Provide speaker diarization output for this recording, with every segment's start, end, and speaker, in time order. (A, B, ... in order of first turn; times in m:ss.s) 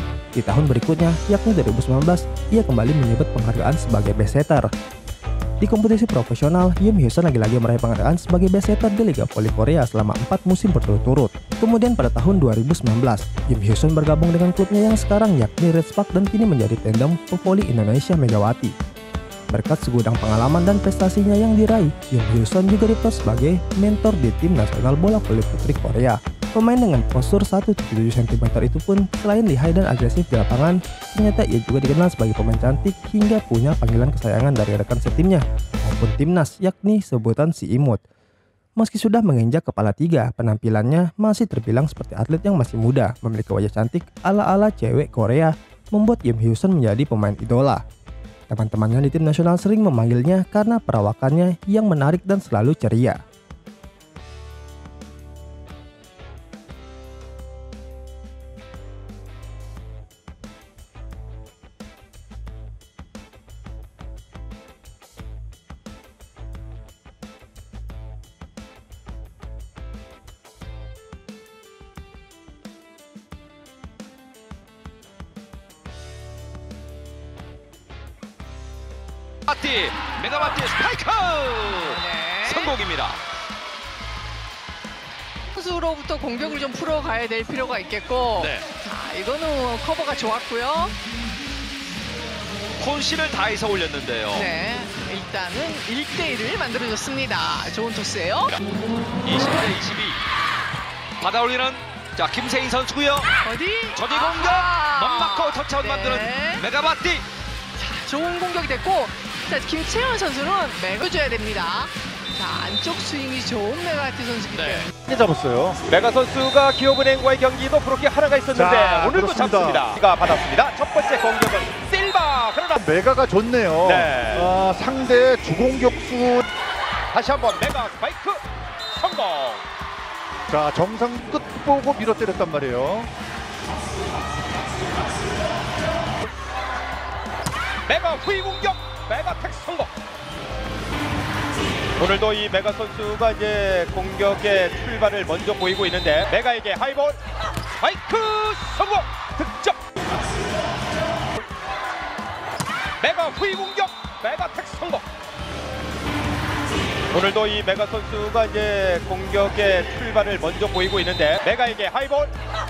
0:00.4-0:04.7 A
0:05.6-0:18.7 A
0:19.5-0:38.0 A
0:38.8-0:47.8 A
0:48.5-0:53.2 A
1:19.5-1:23.2 B
1:21.8-1:22.7 C
1:25.5-1:31.0 C
1:28.4-1:28.7 B
1:32.8-1:34.5 B
1:34.3-1:38.6 C
1:39.2-1:40.2 B
1:41.2-1:43.4 B
1:43.4-1:46.6 C
1:44.0-1:47.3 B
1:47.7-1:54.9 C
1:54.5-1:54.9 B
1:55.0-1:55.8 D
1:55.9-2:02.8 E
1:58.5-1:59.9 D
2:02.8-2:06.5 D
2:03.8-2:04.5 E
2:07.1-2:08.4 E
2:08.9-2:09.6 E
2:10.5-2:13.1 D
2:17.9-2:19.9 E
2:22.0-2:27.2 E
2:27.8-2:29.8 E
2:33.0-2:35.0 E
2:37.1-2:42.3 E